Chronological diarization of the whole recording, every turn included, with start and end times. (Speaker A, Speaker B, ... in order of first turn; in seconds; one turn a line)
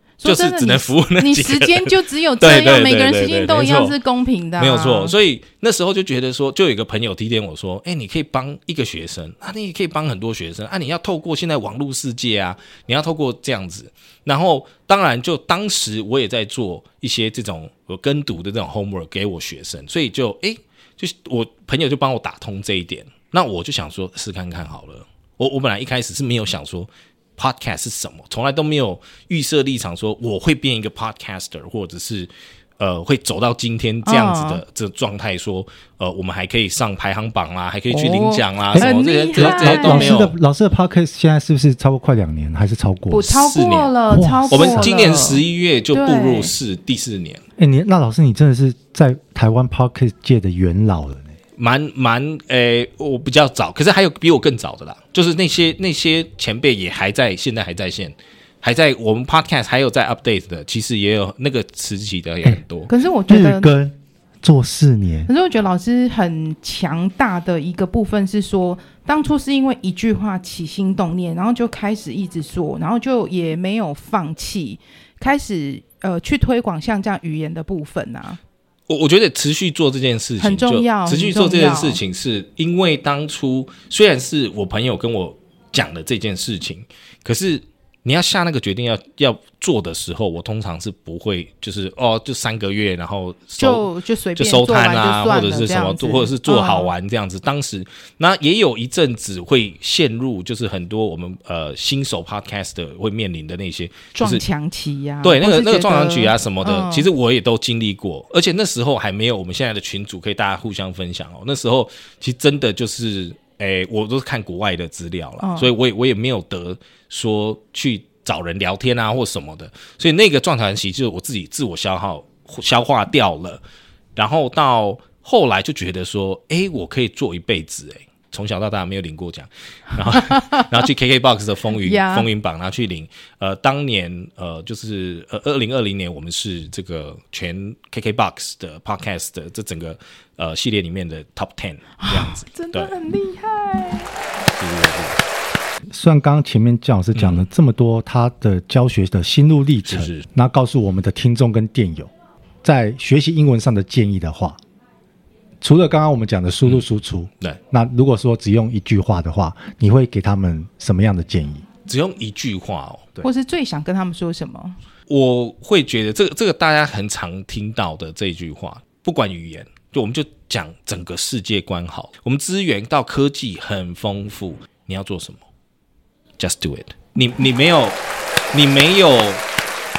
Speaker A: 0.2-5.1
Speaker B: 0.2-4.0
Speaker B: 4.6-40.4
Speaker A: 34.0-34.6
Speaker A: 37.9-40.2
Speaker C: 38.7-43.4
Speaker A: 43.1-46.5
Speaker B: 43.4-43.9
Speaker C: 44.1-44.9
Speaker B: 44.5-47.4
Speaker C: 47.6-51.3
Speaker B: 51.6-62.9
Speaker A: 62.9-63.7
Speaker C: 63.3-65.3
Speaker A: 65.3-78.4
Speaker B: 78.9-104.4
Speaker A: 80.4-82.0
Speaker A: 93.6-96.9
Speaker A: 104.2-107.1
Speaker B: 105.2-123.6
Speaker A: 115.4-115.7
Speaker B: 124.2-142.9
Speaker A: 130.1-130.8
Speaker A: 131.8-132.3
Speaker A: 142.0-144.1
Speaker B: 144.6-145.2
Speaker C: 145.9-152.1
Speaker B: 147.2-147.5
Speaker B: 149.9-150.3
Speaker C: 152.6-154.6
Speaker C: 155.6-161.6
Speaker B: 161.9-163.2
Speaker A: 163.2-164.8
Speaker B: 165.1-175.4
Speaker B: 176.4-178.0
Speaker B: 178.5-179.4